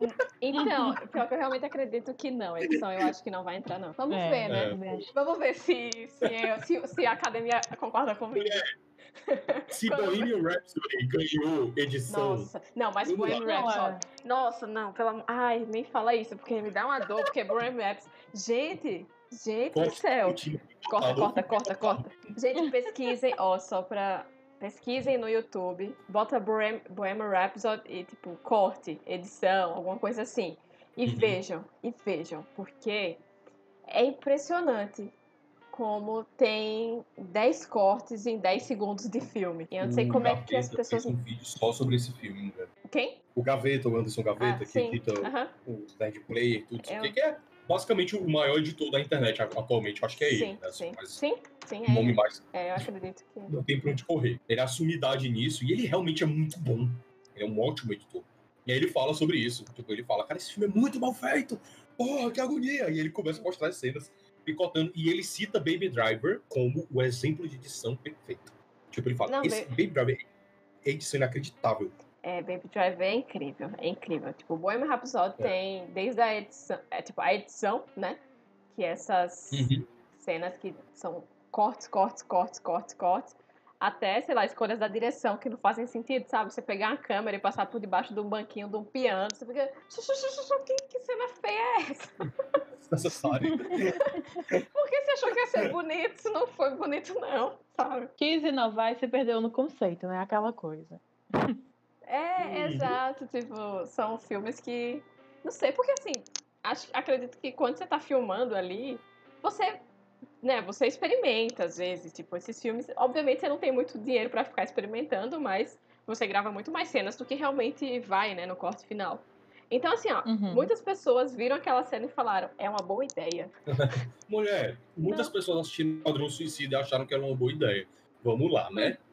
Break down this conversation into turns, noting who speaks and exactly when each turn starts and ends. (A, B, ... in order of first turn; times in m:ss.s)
0:00.4-0:08.7 A
0:00.6-0:01.0 B
0:04.1-0:05.1 B
0:04.5-0:05.1 C
0:06.2-0:06.6 C
0:08.3-0:08.7 C
0:09.3-0:10.3 A
0:09.7-0:12.5 C
0:12.1-0:33.2 A
0:13.0-0:13.6 C
0:13.3-0:14.0 B
0:19.7-0:22.1 C
0:31.1-0:31.4 C
0:33.9-0:35.1 A
0:35.7-0:41.1 A
0:39.8-0:42.7 C
0:42.9-0:43.2 A
0:43.4-0:51.2 C
0:44.4-0:45.5 A
0:46.8-0:47.2 A
0:50.2-0:53.6 A
0:51.9-0:52.8 C
0:53.5-1:10.3 C
1:09.3-1:09.7 A
1:10.8-1:11.9 C
1:12.2-1:18.2 A
1:18.7-1:32.3 A
1:19.5-1:19.9 C
1:32.8-1:34.0 C
1:33.4-1:34.2 B
1:33.9-1:34.2 A
1:34.7-1:38.1 A
1:38.2-1:41.6 B
1:42.1-1:49.8 A
1:42.4-1:43.0 C
1:50.4-2:03.5 A
2:00.3-2:00.7 B
2:03.7-2:09.0 C
2:05.1-2:05.3 A